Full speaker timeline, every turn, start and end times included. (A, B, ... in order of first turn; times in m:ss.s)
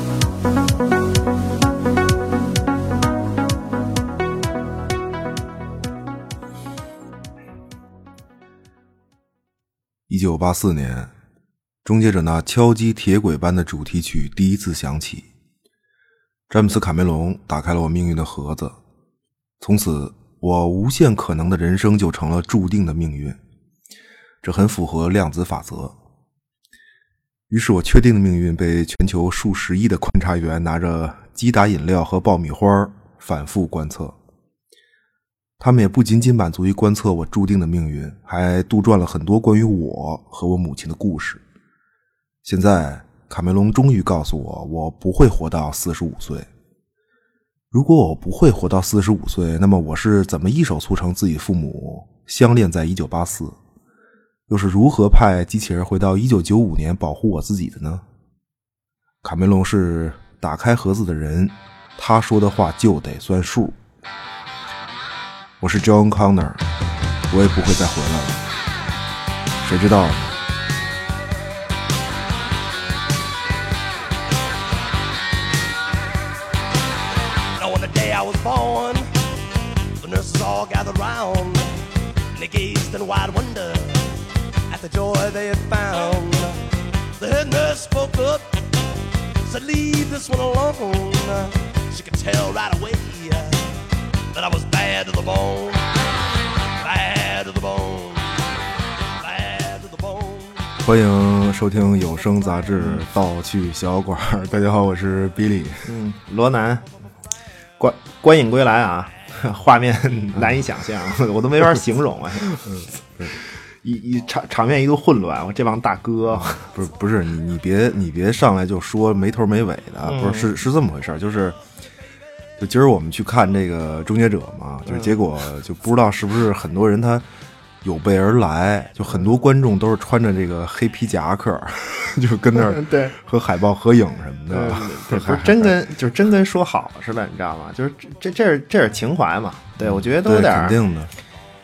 0:10.1-0:11.1 A
0:11.8-0:15.3 A
0:16.5-0:18.8 A
0:19.6-0:23.4 A
0:24.4-0:25.9 A
0:27.5-0:34.1 A
0:35.6-0:41.4 A
0:42.4-0:46.5 A
0:47.7-0:53.5 A
0:54.5-0:58.0 A
0:59.2-1:03.8 A
1:05.6-1:06.6 A
1:07.3-1:08.4 A
1:09.6-1:10.3 A
1:17.5-1:19.2 B
1:20.0-1:35.9 B
1:36.7-1:40.7 B
1:40.8-1:45.9 A
1:45.8-1:46.9 C
1:47.8-1:52.7 C
1:50.3-1:50.6 A
1:52.6-1:53.4 A
1:53.8-1:56.7 C
1:56.3-2:01.6 A
2:00.0-2:00.5 C
2:02.6-2:07.2 A
2:04.9-2:05.1 C
2:07.8-2:15.7 A
2:12.5-2:13.1 C
2:14.5-2:20.8 C
2:19.8-2:21.1 A